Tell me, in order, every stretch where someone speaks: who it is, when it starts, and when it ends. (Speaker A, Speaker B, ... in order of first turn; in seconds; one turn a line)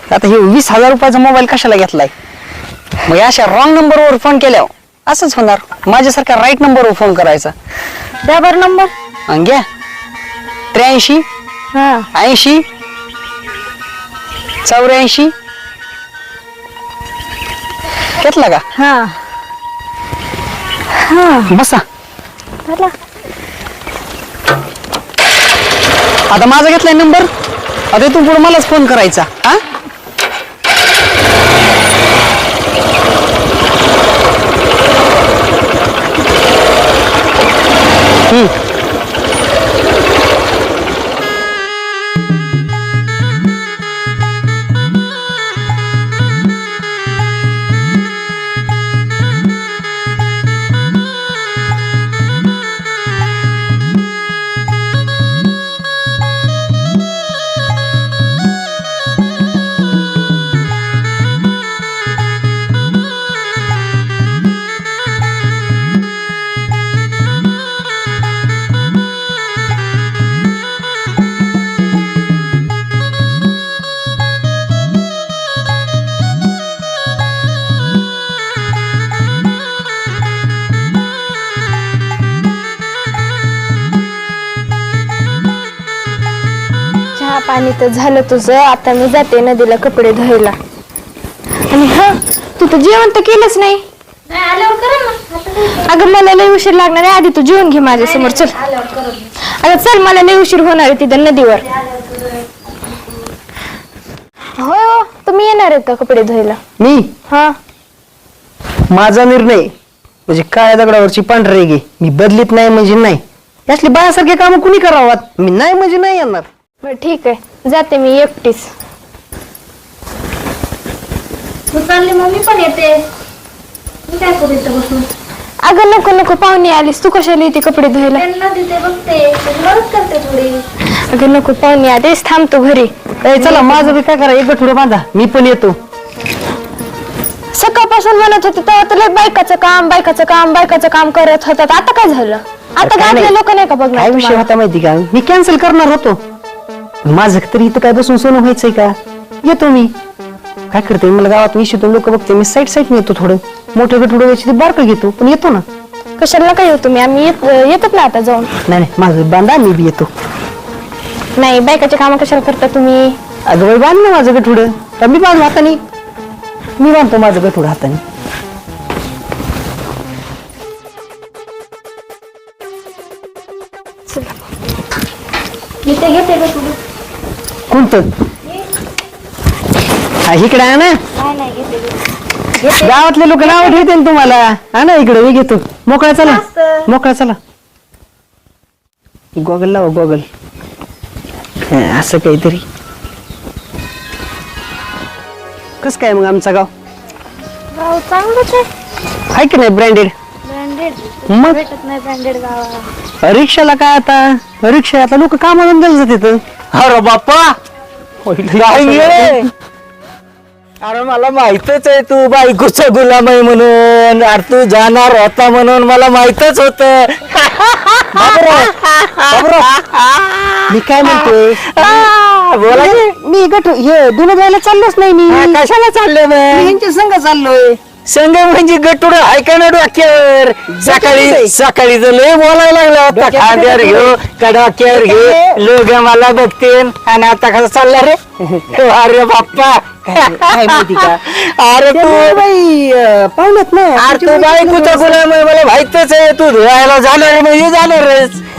Speaker A: 0.1-2.1
Speaker A: 3.0-7.5
Speaker B: 8.2-8.9
Speaker A: 9.3-9.7
Speaker A: 10.7-11.3
Speaker B: 11.7-12.1
Speaker A: 12.1-12.7
Speaker A: 14.7-15.3
Speaker A: 18.2-18.6
Speaker B: 18.8-19.2
Speaker B: 20.9-21.5
Speaker A: 21.5-21.9
Speaker B: 22.7-22.9
Speaker A: 26.3-27.3
Speaker A: 27.9-29.6
Speaker C: 87.2-90.6
Speaker C: 91.7-93.8
Speaker B: 94.3-95.9
Speaker C: 95.8-98.6
Speaker B: 98.0-99.3
Speaker C: 99.4-101.7
Speaker B: 101.9-102.4
Speaker C: 104.6-106.6
Speaker A: 106.8-107.1
Speaker C: 107.3-107.5
Speaker A: 108.9-109.7
Speaker A: 110.3-116.5
Speaker C: 116.8-118.7
Speaker B: 121.7-123.0
Speaker B: 124.1-125.1
Speaker C: 125.6-128.3
Speaker B: 128.1-130.6
Speaker C: 131.1-133.9
Speaker A: 133.2-135.8
Speaker C: 137.5-144.5
Speaker A: 142.8-143.3
Speaker A: 143.9-146.2
Speaker A: 147.1-150.0
Speaker A: 150.7-155.7
Speaker C: 156.2-158.6
Speaker A: 158.7-160.1
Speaker C: 161.4-163.2
Speaker A: 163.5-165.8
Speaker A: 166.8-168.0
Speaker C: 174.1-174.4
Speaker C: 175.9-176.7
Speaker A: 177.7-178.1
Speaker A: 180.2-181.0
Speaker B: 181.2-182.0
Speaker C: 182.6-183.0
Speaker A: 182.8-187.4
Speaker A: 189.4-190.3
Speaker A: 191.6-192.6
Speaker A: 195.8-196.7
Speaker B: 197.7-198.7
Speaker A: 199.3-200.1
Speaker B: 200.4-202.9
Speaker A: 201.3-201.6
Speaker A: 203.2-206.4
Speaker D: 206.7-207.6
Speaker A: 208.3-209.4
Speaker D: 208.5-209.5
Speaker D: 210.8-223.1
Speaker A: 218.2-218.7
Speaker A: 219.3-219.7
Speaker A: 220.7-222.1
Speaker A: 222.7-225.6
Speaker D: 225.3-226.8
Speaker A: 226.5-227.8
Speaker D: 228.1-238.2
Speaker A: 230.7-231.6
Speaker A: 233.1-234.1
Speaker A: 234.9-235.6
Speaker D: 238.7-242.4
Speaker A: 240.1-241.2
Speaker A: 241.9-245.2
Speaker D: 244.0-248.4